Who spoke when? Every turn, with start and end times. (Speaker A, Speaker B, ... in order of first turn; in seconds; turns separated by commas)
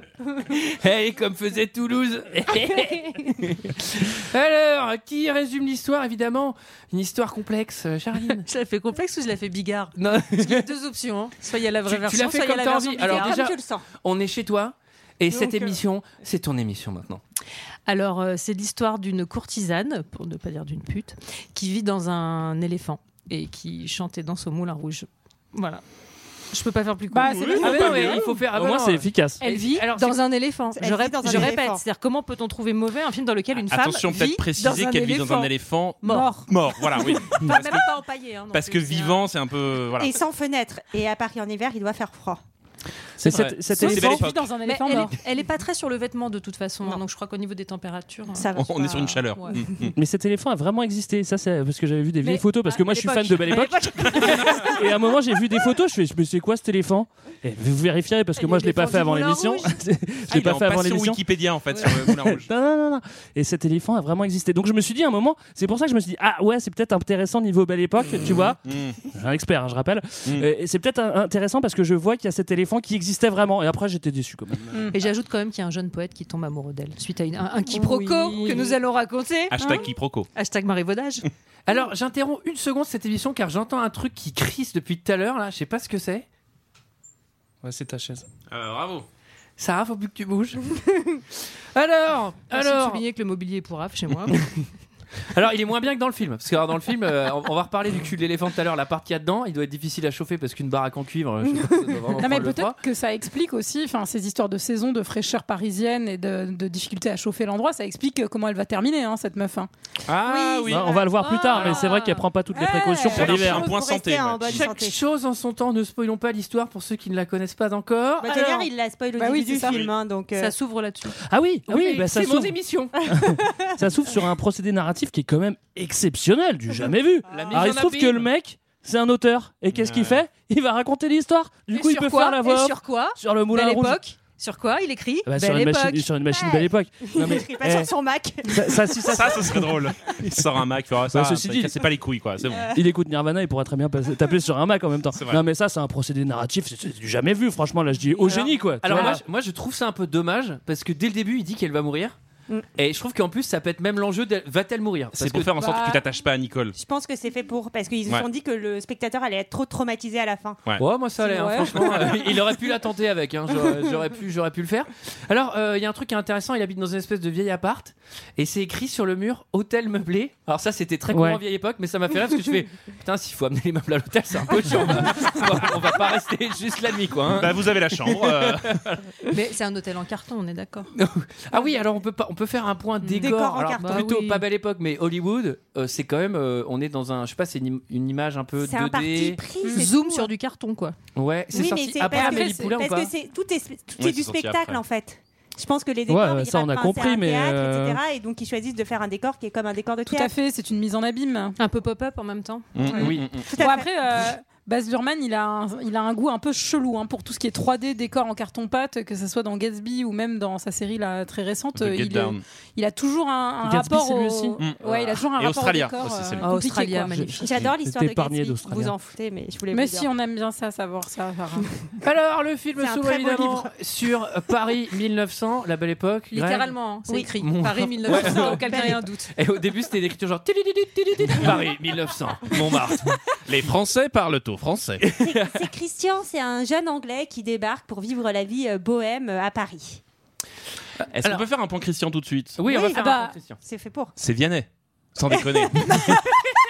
Speaker A: 0.4-8.4, Speaker B: 8.4-13.4, Speaker A: 9.9-10.7, Speaker A: 11.8-17.2, Speaker C: 13.0-13.8, Speaker C: 15.3-15.7, Speaker B: 17.9-25.8, Speaker B: 26.5-28.1, Speaker D: 27.1-28.3, Speaker A: 27.6-30.1, Speaker E: 28.5-29.4, Speaker D: 29.4-29.9, Speaker B: 29.5-35.5, Speaker C: 30.7-31.8, Speaker F: 33.5-37.9, Speaker B: 36.0-36.4, Speaker D: 36.0-36.5, Speaker B: 37.0-39.2, Speaker F: 38.5-40.1, Speaker C: 40.0-42.4, Speaker E: 43.2-44.3, Speaker A: 43.2-43.5, Speaker F: 43.3-44.4, Speaker D: 43.6-45.2, Speaker B: 44.6-48.5, Speaker C: 48.3-49.3, Speaker F: 48.5-50.0, Speaker B: 49.1-49.8, Speaker E: 50.0-61.2, Speaker D: 52.2-54.6, Speaker B: 52.7-54.6, Speaker B: 58.4-59.7, Speaker F: 60.3-62.5, Speaker E: 61.8-74.9, Speaker F: 68.2-68.9, Speaker B: 74.9-81.2, Speaker D: 77.7-78.7, Speaker F: 79.5-80.3, Speaker A: 81.7-86.2, Speaker E: 87.6-88.2, Speaker F: 88.5-89.0, Speaker A: 89.6-90.8, Speaker A: 91.7-93.0, Speaker B: 92.5-94.5, Speaker A: 95.3-102.8, Speaker D: 102.1-109.7, Speaker F: 110.1-110.9, Speaker B: 110.3-112.2, Speaker E: 110.7-113.7, Speaker C: 112.6-115.0, Speaker D: 112.7-113.0, Speaker F: 113.1-114.7, Speaker A: 114.5-118.7, Speaker C: 118.2-120.5, Speaker D: 119.2-119.8, Speaker B: 120.3-121.2, Speaker E: 121.2-134.0, Speaker A: 121.7-122.9, Speaker A: 127.3-128.3, Speaker F: 129.8-130.2, Speaker B: 131.7-136.1, Speaker E: 135.2-137.9, Speaker C: 136.3-139.2, Speaker E: 138.4-140.1, Speaker F: 139.1-142.8, Speaker E: 141.1-141.9, Speaker C: 142.5-142.8, Speaker E: 142.7-149.2, Speaker F: 145.1-145.4, Speaker A: 148.3-152.1, Speaker A: 152.8-155.8, Speaker F: 155.2-156.8, Speaker D: 155.6-156.0, Speaker C: 156.7-160.6, Speaker A: 160.8-179.0, Speaker D: 161.2-162.1, Speaker E: 171.1-171.4, Speaker F: 177.3-178.8, Speaker B: 179.3-180.9, Speaker A: 180.9-189.4, Speaker C: 183.1-184.1, Speaker B: 183.8-184.4, Speaker C: 188.6-190.3, Speaker B: 189.7-190.9, Speaker A: 191.1-193.1, Speaker C: 191.5-200.3, Speaker D: 192.1-192.8, Speaker F: 194.0-194.8, Speaker E: 196.1-198.0, Speaker D: 200.1-201.6, Speaker B: 201.6-203.0, Speaker F: 202.7-203.5, Speaker C: 202.9-203.9, Speaker A: 202.9-203.4, Speaker D: 203.6-217.3, Speaker F: 211.7-212.4, Speaker E: 213.6-214.6, Speaker F: 214.6-216.5, Speaker B: 216.4-217.4, Speaker E: 217.2-218.9, Speaker C: 217.4-220.1, Speaker D: 219.7-221.8, Speaker A: 222.0-226.7, Speaker C: 222.8-223.7, Speaker B: 226.3-229.3, Speaker A: 227.4-233.2, Speaker C: 228.1-229.0, Speaker F: 233.4-235.0, Speaker A: 235.0-235.6, Speaker C: 235.2-240.0, Speaker A: 241.2-241.4, Speaker F: 241.2-242.6, Speaker A: 242.6-243.6, Speaker C: 242.7-243.0, Speaker D: 242.8-243.3, Speaker C: 243.6-244.1, Speaker F: 244.2-246.2